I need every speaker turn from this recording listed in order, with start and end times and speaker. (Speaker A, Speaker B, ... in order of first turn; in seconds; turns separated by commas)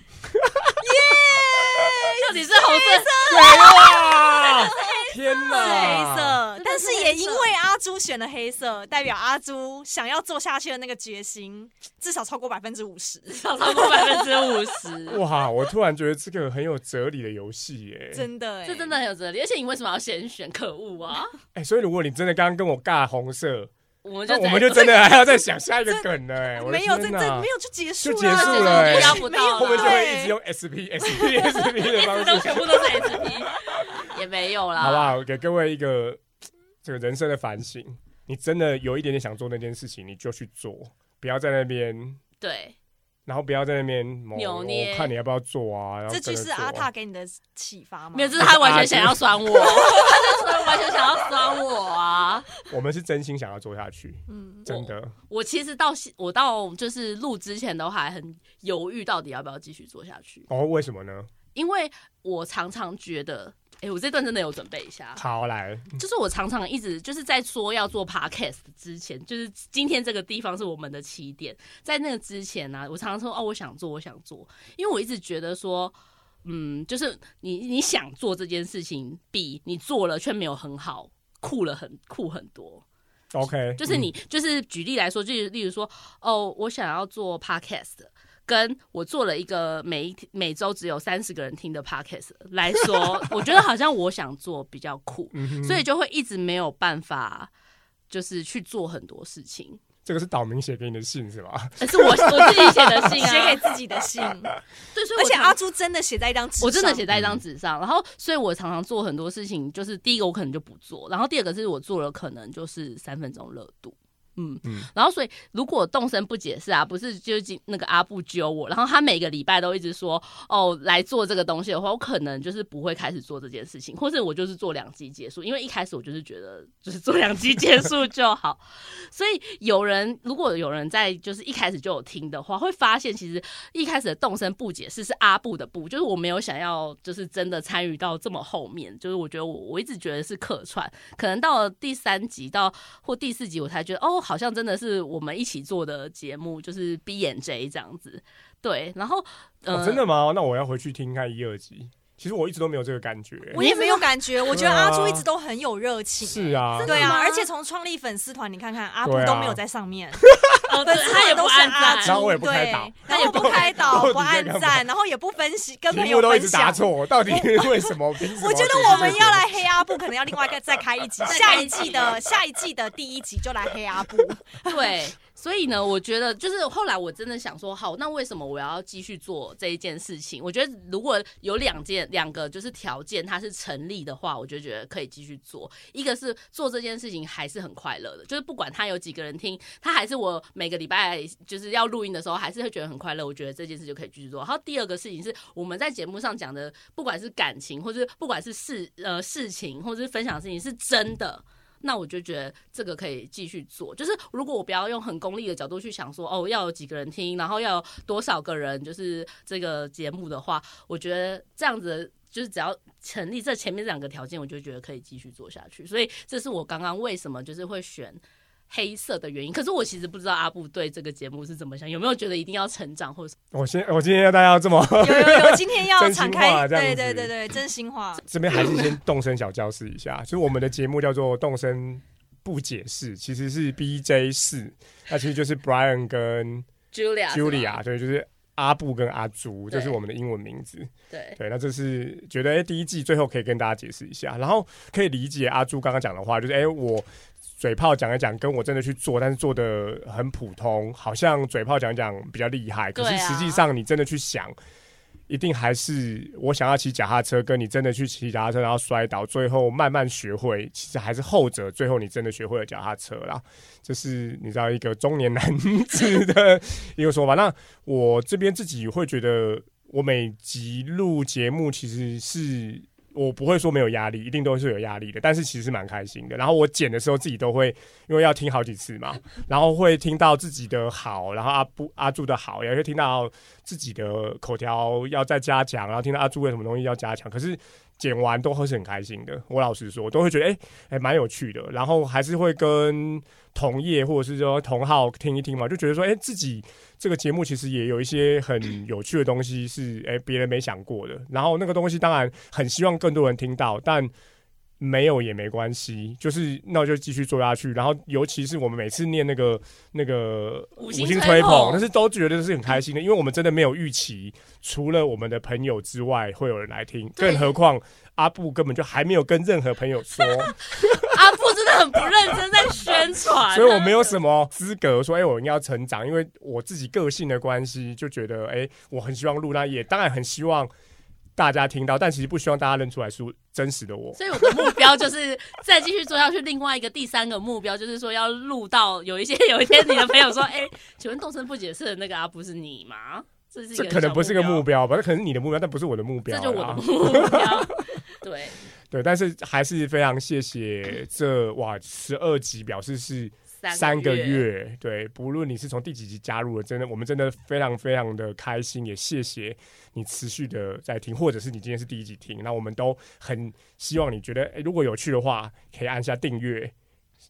Speaker A: 0.8-14.4, Speaker B: 2.2-3.9, Speaker C: 3.3-6.4, Speaker B: 5.5-7.5, Speaker B: 13.3-15.2, Speaker C: 15.1-18.3, Speaker A: 18.1-18.9, Speaker B: 18.6-21.3, Speaker C: 21.5-23.7, Speaker B: 24.0-25.1, Speaker C: 24.3-27.5, Speaker A: 25.8-30.3, Speaker C: 28.0-33.5, Speaker B: 28.2-30.1, Speaker B: 31.6-35.2, Speaker C: 34.8-36.2, Speaker C: 36.8-42.2, Speaker B: 42.4-42.8, Speaker C: 43.2-46.9, Speaker B: 44.3-45.1, Speaker A: 46.1-48.5, Speaker B: 48.1-52.5, Speaker C: 48.4-49.4, Speaker A: 49.6-50.5, Speaker C: 52.7-55.1, Speaker A: 54.3-54.7, Speaker B: 54.7-60.5, Speaker C: 60.5-61.3, Speaker B: 61.5-65.2, Speaker C: 65.2-66.0, Speaker B: 66.0-82.8, Speaker C: 83.3-84.1, Speaker B: 83.8-97.5, Speaker C: 95.3-95.8, Speaker B: 98.1-99.8, Speaker C: 100.0-103.2, Speaker B: 101.8-103.6, Speaker A: 103.0-104.5, Speaker B: 104.9-105.6, Speaker A: 105.2-107.0, Speaker B: 106.6-150.0, Speaker C: 107.1-107.4, Speaker C: 149.7-153.6, Speaker B: 153.5-154.1, Speaker A: 153.5-174.9, Speaker C: 154.5-155.2, Speaker C: 156.2-157.1, Speaker B: 156.8-157.5, Speaker C: 159.0-159.6, Speaker C: 160.2-160.6, Speaker B: 160.6-162.2, Speaker C: 162.0-164.8, Speaker B: 163.1-164.1, Speaker C: 165.9-169.6, Speaker B: 171.2-172.2, Speaker B: 174.6-223.3, Speaker C: 223.5-227.3, Speaker A: 225.0-228.2, Speaker C: 228.2-236.7, Speaker B: 236.9-237.8, Speaker C: 237.3-247.1, Speaker B: 239.7-240.0, Speaker B: 241.1-241.4, Speaker C: 247.6-254.5, Speaker B: 252.9-253.7, Speaker C: 255.3-304.1, Speaker C: 304.8-321.2, Speaker B: 310.8-311.8, Speaker B: 317.2-317.5, Speaker B: 320.8-324.2, Speaker C: 323.5-330.7, Speaker C: 331.4-334.2, Speaker B: 334.2-344.6, Speaker C: 343.7-347.7, Speaker B: 346.3-348.6, Speaker C: 348.9-366.7, Speaker B: 353.6-354.4